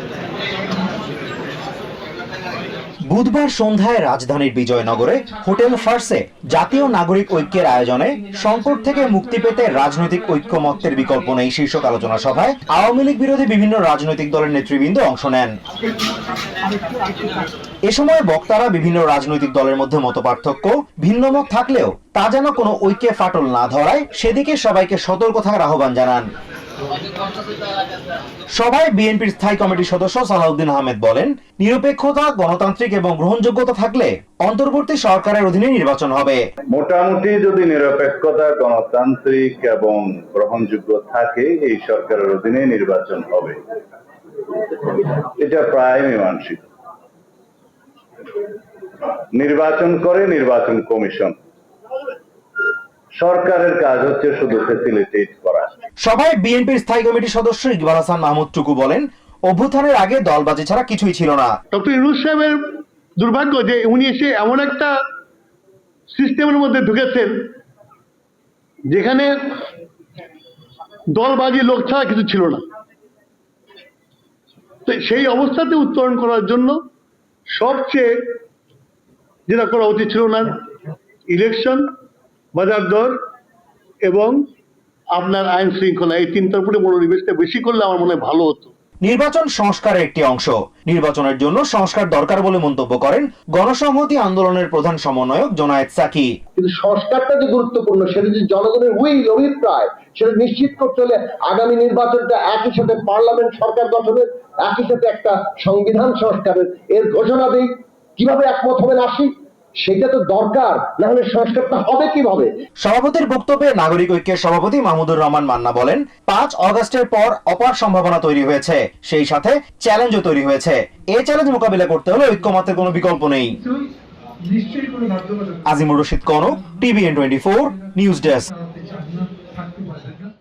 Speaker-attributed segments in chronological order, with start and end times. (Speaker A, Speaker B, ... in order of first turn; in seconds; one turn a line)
Speaker A: 3.1-15.5
Speaker A: 17.9-26.2
Speaker A: 28.5-36.4
Speaker B: 36.7-43.6
Speaker B: 45.4-46.6
Speaker B: 49.3-51.3
Speaker B: 53.2-55.7
Speaker A: 56.0-61.5
Speaker C: 61.7-62.6
Speaker C: 63.2-64.9
Speaker C: 66.1-67.3
Speaker C: 68.9-69.4
Speaker C: 71.1-72.6
Speaker C: 74.9-76.8
Speaker C: 77.5-78.1
Speaker C: 79.5-80.6
Speaker C: 81.3-81.8
Speaker C: 82.5-83.1
Speaker C: 84.0-84.3
Speaker C: 85.1-88.7
Speaker A: 89.0-96.3
Speaker D: 96.6-109.3
Speaker D: 109.8-112.5
Speaker A: 112.8-123.6
Speaker A: 125.6-128.5